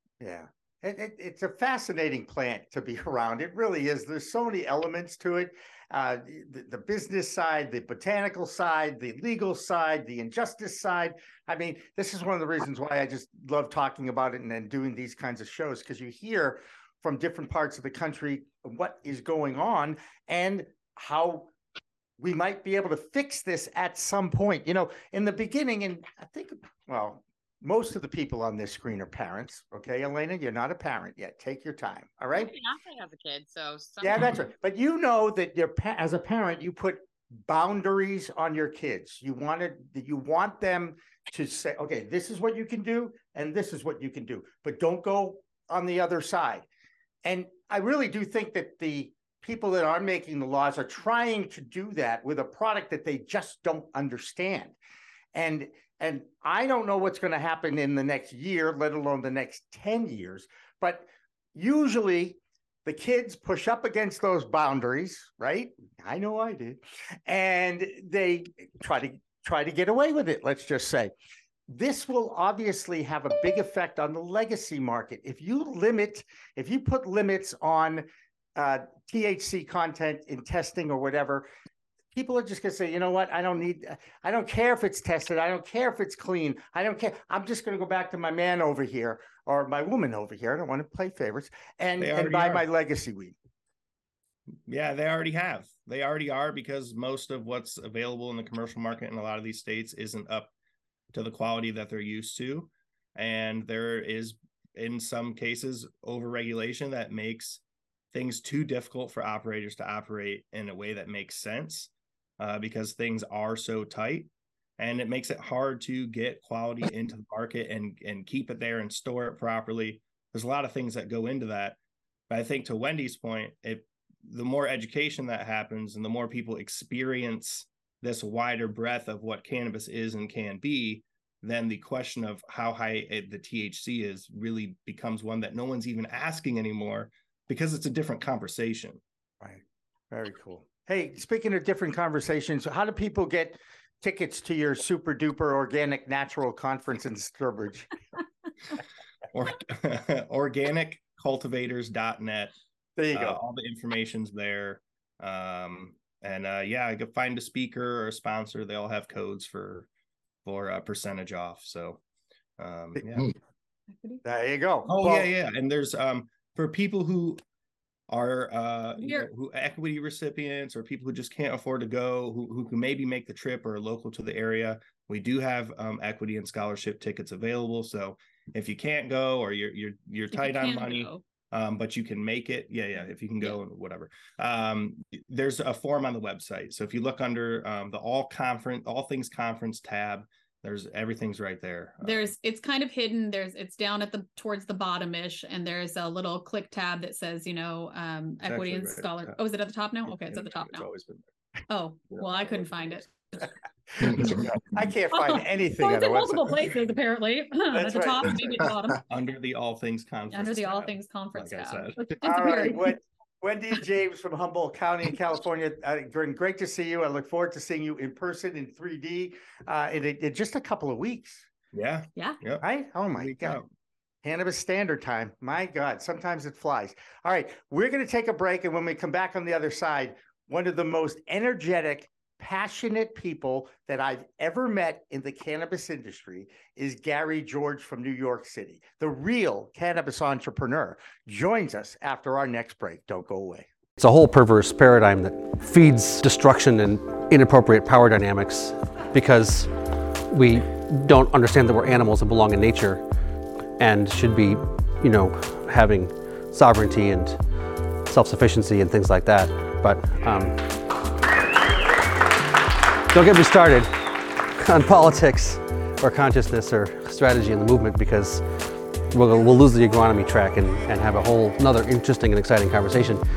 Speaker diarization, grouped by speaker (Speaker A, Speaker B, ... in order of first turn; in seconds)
Speaker A: 0.2-21.5, 22.2-32.5, 34.0-46.6, 47.2-54.8, 55.3-71.1, 71.7-81.5, 82.1-93.3, 139.4-147.9, 153.0-153.4, 164.2-165.3, 204.0-206.5, 207.7-208.4, 212.2-221.5, 222.6-223.6, 224.2-243.7
Speaker B: 32.3-34.4
Speaker C: 92.0-92.7, 94.7-100.5, 101.1-121.8, 122.3-139.0, 149.3-152.5, 153.1-159.9, 160.4-162.0, 162.6-163.3, 164.8-167.4, 168.1-192.3, 198.4-199.4, 200.1-201.3, 202.1-202.7, 209.1-212.0, 221.7-223.7
Speaker D: 169.0-169.3, 180.3-181.2, 192.0-200.9, 201.7-203.1, 205.1-209.0, 210.3-212.9
Speaker E: 244.0-249.7, 250.3-253.0, 253.8-257.4, 258.1-260.7, 263.1-263.9, 264.5-273.2